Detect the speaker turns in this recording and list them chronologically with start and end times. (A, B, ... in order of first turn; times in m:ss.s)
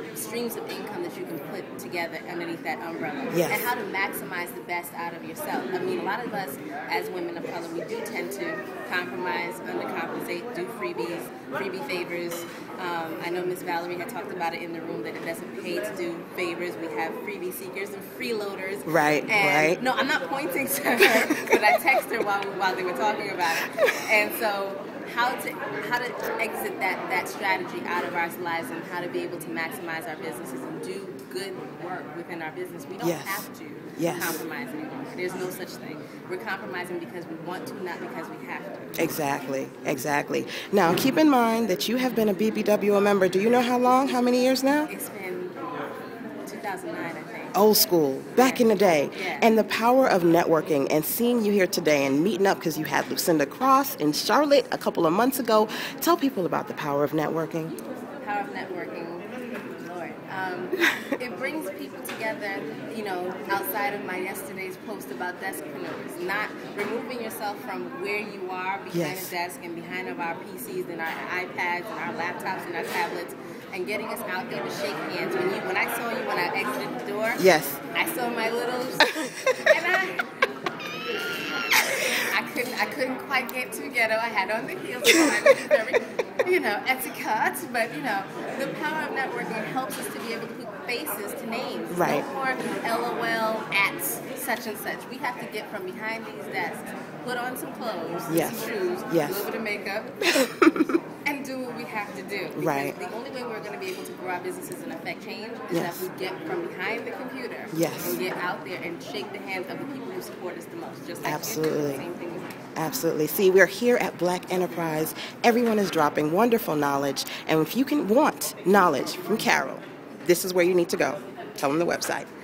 0:00.1-0:39.0 A
0:03.3-0:03.7 B
0:18.8-0:19.8 B
0:21.0-0:21.5 B
0:33.0-0:33.5 B
0:34.0-0:34.4 B
0:39.0-0:44.9 B
0:44.9-0:45.6 A
0:46.4-0:47.6 A
0:47.5-0:57.7 B
0:48.4-0:49.5 A
0:58.2-1:19.1 A
1:08.9-1:09.3 B
1:17.4-1:17.8 B
1:19.2-1:19.8 B
1:19.6-1:20.3 A
1:22.2-1:40.2 A
1:31.9-1:32.2 B
1:38.3-1:39.5 B
1:40.4-1:40.9 B
1:41.2-1:52.7 A
1:42.5-1:43.0 B
1:45.7-1:46.0 B
1:47.7-1:48.2 B
1:51.2-1:52.0 B
1:52.8-2:02.3 B